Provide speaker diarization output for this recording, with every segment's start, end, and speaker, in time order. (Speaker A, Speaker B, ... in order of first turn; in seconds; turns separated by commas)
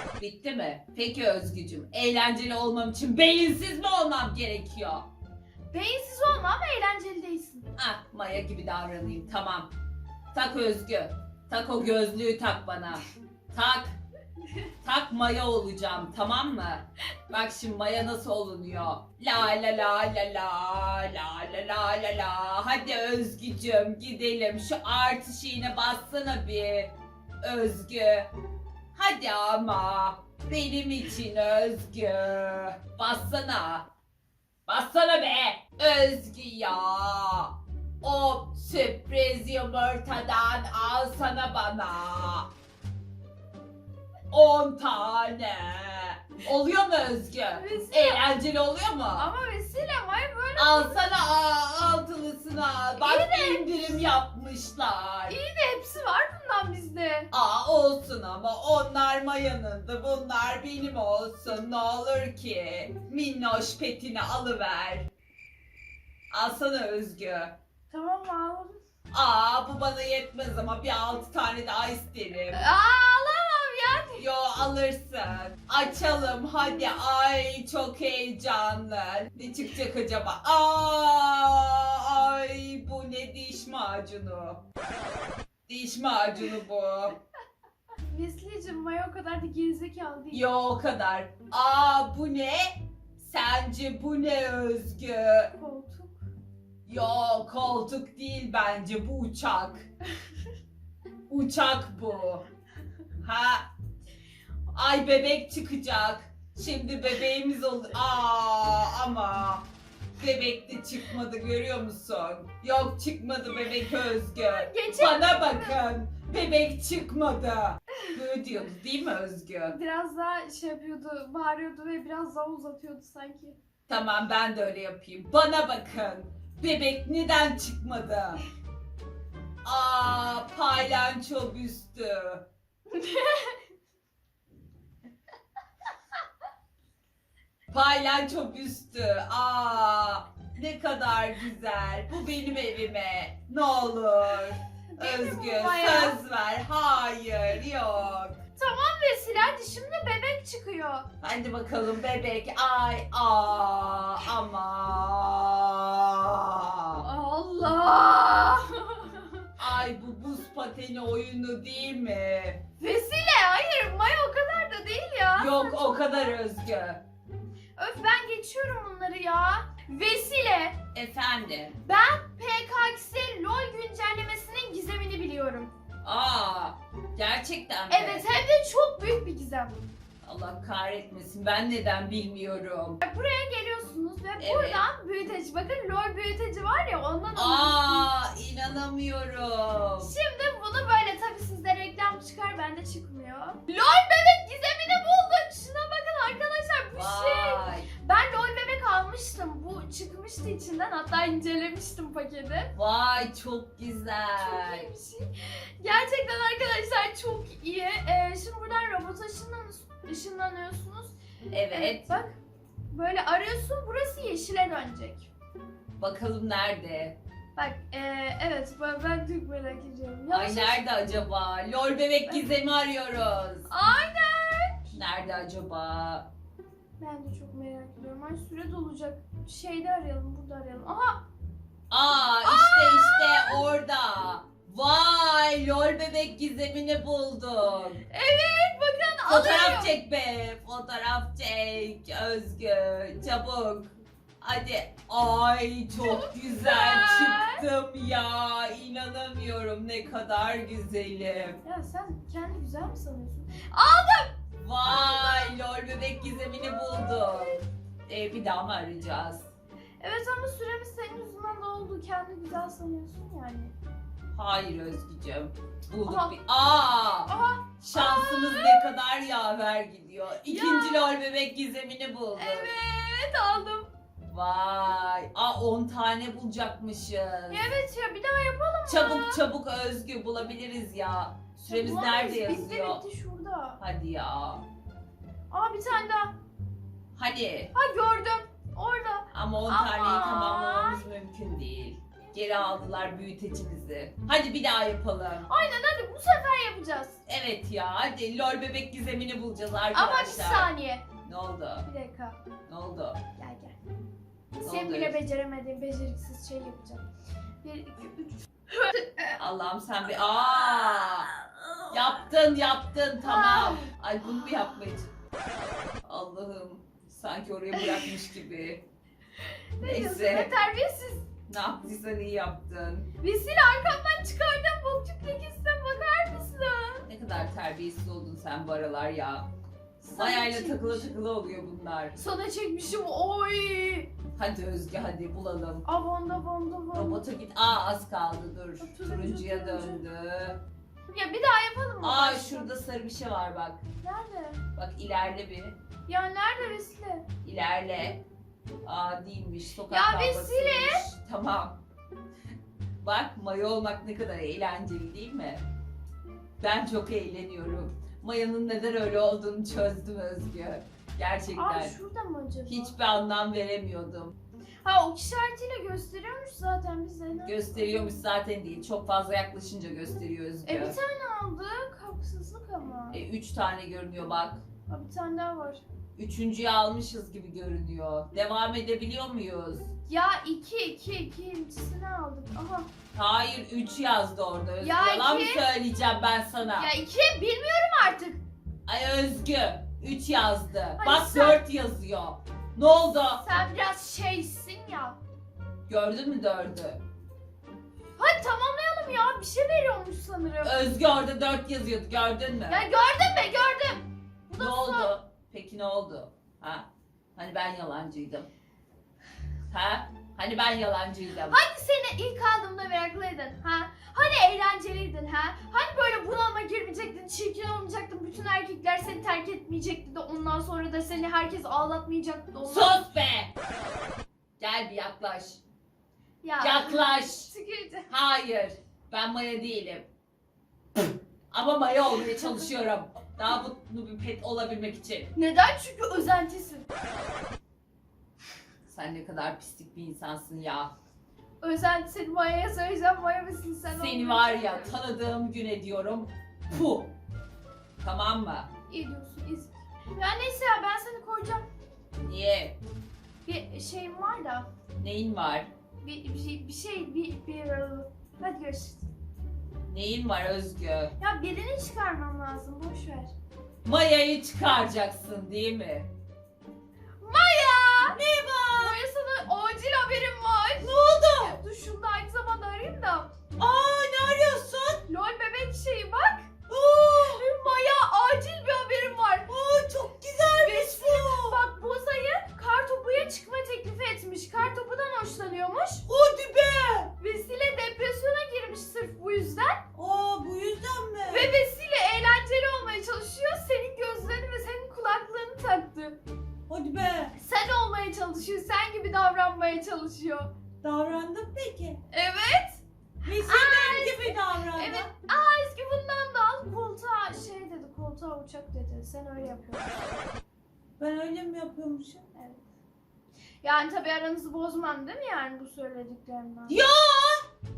Speaker A: 0.2-5.1, Speaker B: 5.7-7.7, Speaker A: 7.8-9.7, Speaker A: 10.3-14.0, Speaker A: 14.8-28.3, Speaker A: 28.9-33.9, Speaker A: 34.7-42.5, Speaker A: 44.3-49.3, Speaker B: 47.5-48.3, Speaker B: 49.2-51.1, Speaker A: 50.6-55.4, Speaker B: 53.0-54.0, Speaker B: 55.3-57.3, Speaker A: 57.3-65.1, Speaker A: 66.3-67.6, Speaker B: 67.9-68.8, Speaker A: 69.1-72.7, Speaker B: 72.5-74.2, Speaker A: 74.2-84.6, Speaker A: 85.7-87.2, Speaker B: 88.0-90.5, Speaker A: 90.3-95.5, Speaker B: 95.6-96.2, Speaker A: 96.9-99.9, Speaker A: 101.3-102.5, Speaker A: 103.2-103.7, Speaker A: 104.7-109.7, Speaker A: 110.2-119.8, Speaker B: 114.3-115.8, Speaker B: 119.7-123.6, Speaker A: 123.9-128.4, Speaker A: 129.6-132.5, Speaker B: 132.9-133.6, Speaker A: 137.7-148.4, Speaker B: 144.9-146.2, Speaker B: 148.6-151.1, Speaker A: 151.2-157.1, Speaker B: 157.0-159.5, Speaker A: 159.6-162.6, Speaker B: 162.8-166.3, Speaker A: 165.4-167.0, Speaker B: 167.8-170.8, Speaker A: 170.9-171.8, Speaker B: 171.8-175.7, Speaker A: 176.0-178.2, Speaker B: 177.9-179.8, Speaker A: 180.2-183.0, Speaker B: 183.0-188.1, Speaker A: 184.4-184.8, Speaker A: 187.3-190.1, Speaker B: 190.0-202.7, Speaker A: 196.9-197.9, Speaker A: 202.7-204.9, Speaker B: 204.4-211.2, Speaker A: 211.5-212.1, Speaker B: 211.7-212.4, Speaker B: 212.9-215.3, Speaker A: 216.0-217.2, Speaker B: 217.6-220.8, Speaker A: 220.3-223.7, Speaker B: 223.7-224.8, Speaker A: 224.9-226.3, Speaker B: 227.0-231.2, Speaker A: 231.9-238.0, Speaker B: 232.4-233.6, Speaker B: 238.1-239.9, Speaker A: 239.3-251.6, Speaker B: 246.0-247.6, Speaker B: 251.6-255.6, Speaker A: 254.6-259.5, Speaker B: 256.6-257.6, Speaker B: 260.0-263.7, Speaker A: 264.3-272.7, Speaker B: 266.1-266.4, Speaker B: 267.3-268.9, Speaker B: 270.4-271.1, Speaker B: 272.4-273.9, Speaker A: 274.3-277.7, Speaker B: 277.5-279.4, Speaker A: 278.9-283.0, Speaker B: 281.6-283.8, Speaker A: 283.8-284.6, Speaker B: 285.5-286.4, Speaker A: 287.2-287.7, Speaker B: 287.7-291.0, Speaker A: 289.3-295.5, Speaker B: 295.5-297.2, Speaker A: 297.3-300.7, Speaker B: 299.9-301.1, Speaker A: 301.2-301.9, Speaker B: 301.9-302.4, Speaker A: 302.7-303.2, Speaker B: 303.4-303.8, Speaker B: 304.6-307.1, Speaker A: 304.6-305.2, Speaker B: 307.6-309.4, Speaker A: 309.4-311.3, Speaker B: 310.2-312.0, Speaker A: 311.9-315.1, Speaker B: 313.2-313.9, Speaker A: 316.1-318.8, Speaker B: 319.8-321.3, Speaker A: 319.8-320.5, Speaker A: 321.5-323.1, Speaker B: 323.2-327.1, Speaker A: 327.1-329.5, Speaker B: 330.0-331.1, Speaker A: 330.1-332.1, Speaker B: 332.1-334.1, Speaker A: 334.4-335.9, Speaker B: 335.9-337.2, Speaker A: 336.9-340.6, Speaker B: 338.8-340.1, Speaker B: 341.1-342.7, Speaker A: 342.0-343.8, Speaker B: 344.0-344.6, Speaker A: 344.8-345.8, Speaker B: 346.1-347.3, Speaker A: 347.4-348.2, Speaker A: 348.8-351.8, Speaker B: 349.9-351.0, Speaker A: 353.0-355.6, Speaker A: 356.6-361.9, Speaker B: 361.6-363.0, Speaker A: 362.7-364.3, Speaker B: 364.8-368.2, Speaker A: 367.4-371.0, Speaker B: 370.6-373.2, Speaker A: 373.1-374.6, Speaker B: 374.9-375.8, Speaker A: 376.2-379.9, Speaker B: 380.1-382.9, Speaker A: 383.1-386.9, Speaker B: 384.8-385.6, Speaker B: 386.8-388.4, Speaker A: 388.9-393.4, Speaker B: 391.0-391.6, Speaker B: 393.4-395.2, Speaker A: 395.9-397.0, Speaker B: 398.2-400.8, Speaker A: 400.6-402.9, Speaker B: 402.7-405.1, Speaker A: 404.6-408.5, Speaker A: 409.7-411.6, Speaker B: 411.5-423.1, Speaker A: 422.6-423.5, Speaker A: 424.6-425.6, Speaker B: 426.4-428.1, Speaker A: 426.6-427.5, Speaker A: 428.1-430.1, Speaker A: 431.5-435.3, Speaker B: 435.4-436.9, Speaker A: 438.9-440.9, Speaker B: 441.6-445.0, Speaker A: 443.9-447.1, Speaker A: 448.0-448.7, Speaker B: 448.9-451.7, Speaker A: 452.2-452.8, Speaker B: 453.4-454.7, Speaker A: 455.0-455.7, Speaker B: 456.0-459.1, Speaker A: 459.9-461.1, Speaker B: 461.2-463.3, Speaker A: 463.9-466.1, Speaker B: 467.2-468.2, Speaker C: 468.0-469.0, Speaker B: 468.8-473.3, Speaker C: 470.8-471.6, Speaker C: 473.6-475.0, Speaker B: 475.1-476.5, Speaker C: 476.7-477.5, Speaker B: 477.2-479.5, Speaker C: 479.5-481.6, Speaker B: 480.5-486.1, Speaker C: 486.1-487.1, Speaker B: 487.2-489.8, Speaker C: 489.9-491.6, Speaker B: 491.3-496.2, Speaker C: 496.7-497.4, Speaker B: 497.4-500.5, Speaker C: 500.8-502.0, Speaker B: 502.1-510.2, Speaker C: 503.2-505.1, Speaker C: 511.0-512.3, Speaker B: 512.4-512.6, Speaker B: 513.6-516.8, Speaker C: 516.7-517.5